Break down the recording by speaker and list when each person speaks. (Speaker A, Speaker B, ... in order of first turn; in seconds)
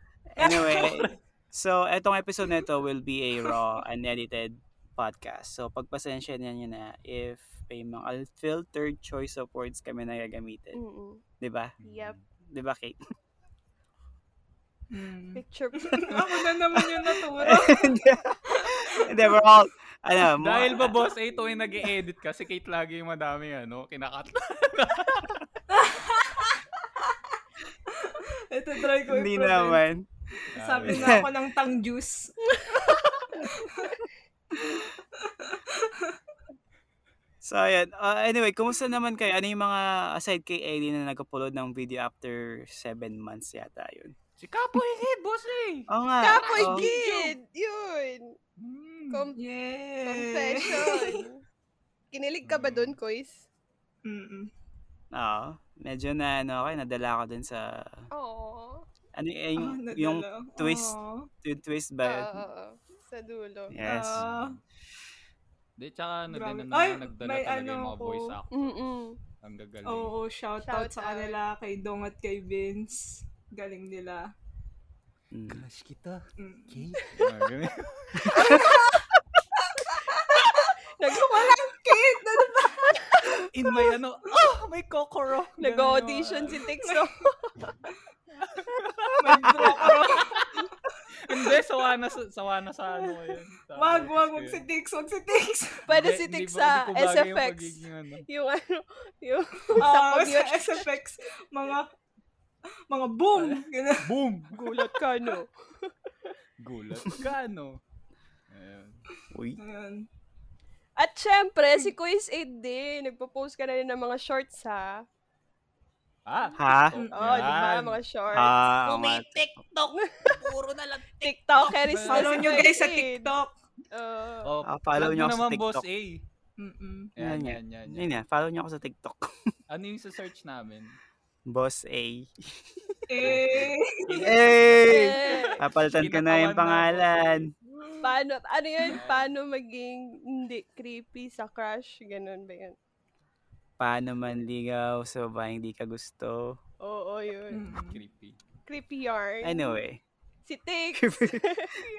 Speaker A: 0.4-10.8, 11.4-11.8, 12.5-13.0, 16.1-21.1, 29.1-30.1, 30.8-31.3, 37.4-44.1, 45.9-46.9, 55.1-58.1, 59.1-62.4, 63.7-64.2, 75.3-75.7, 78.2-78.8, 89.6-89.9, 109.3-109.6, 116.5-117.0, 118.3-119.4, 124.6-125.8, 127.2-129.5, 131.5-133.6, 134.2-137.5, 143.8-146.6, 149.4-150.0, 150.9-151.8
Speaker B: 0.4-1.1, 14.9-17.9, 18.6-19.4, 25.7-27.2, 27.9-29.8, 30.5-34.0, 35.2-36.2, 49.4-51.2, 54.0-54.5, 59.6-61.3, 63.8-64.6, 66.3-68.3, 69.9-74.3, 76.4-77.2, 78.4-78.9, 79.6-80.7, 81.3-83.9, 86.8-87.1, 89.2-90.5, 93.8-95.8, 99.8-101.9, 102.9-104.1, 109.6-110.1, 117.0-117.2, 122.0-123.5, 126.6-127.1, 133.1-134.3, 147.5-148.0
Speaker C: 10.7-11.2, 11.8-12.2, 15.4-16.2, 46.2-48.4, 49.1-49.4, 50.0-51.4, 52.1-53.5, 58.1-58.8, 62.0-63.8, 68.5-69.2, 70.6-71.4, 81.0-81.8, 83.0-83.5, 85.6-87.9, 95.9-101.0, 104.5-106.3, 111.0-115.0, 117.1-118.6, 119.9-120.4, 121.2-123.3, 123.9-124.5, 134.8-135.6, 138.0-142.8, 146.8-147.6, 148.7-149.8, 150.5-151.8
Speaker D: 11.8-12.2, 20.4-25.4, 30.5-31.3, 44.4-47.4, 48.6-49.3, 52.4-53.0, 64.0-64.6, 65.8-70.2, 75.5-78.6, 83.5-86.6, 88.4-90.6, 91.2-94.7, 95.9-98.3, 103.4-105.0, 106.6-107.8, 108.5-109.0, 116.3-118.0, 118.8-122.7, 124.5-126.2, 127.2-128.2, 129.7-131.0, 133.2-138.0, 138.8-139.3, 147.6-148.4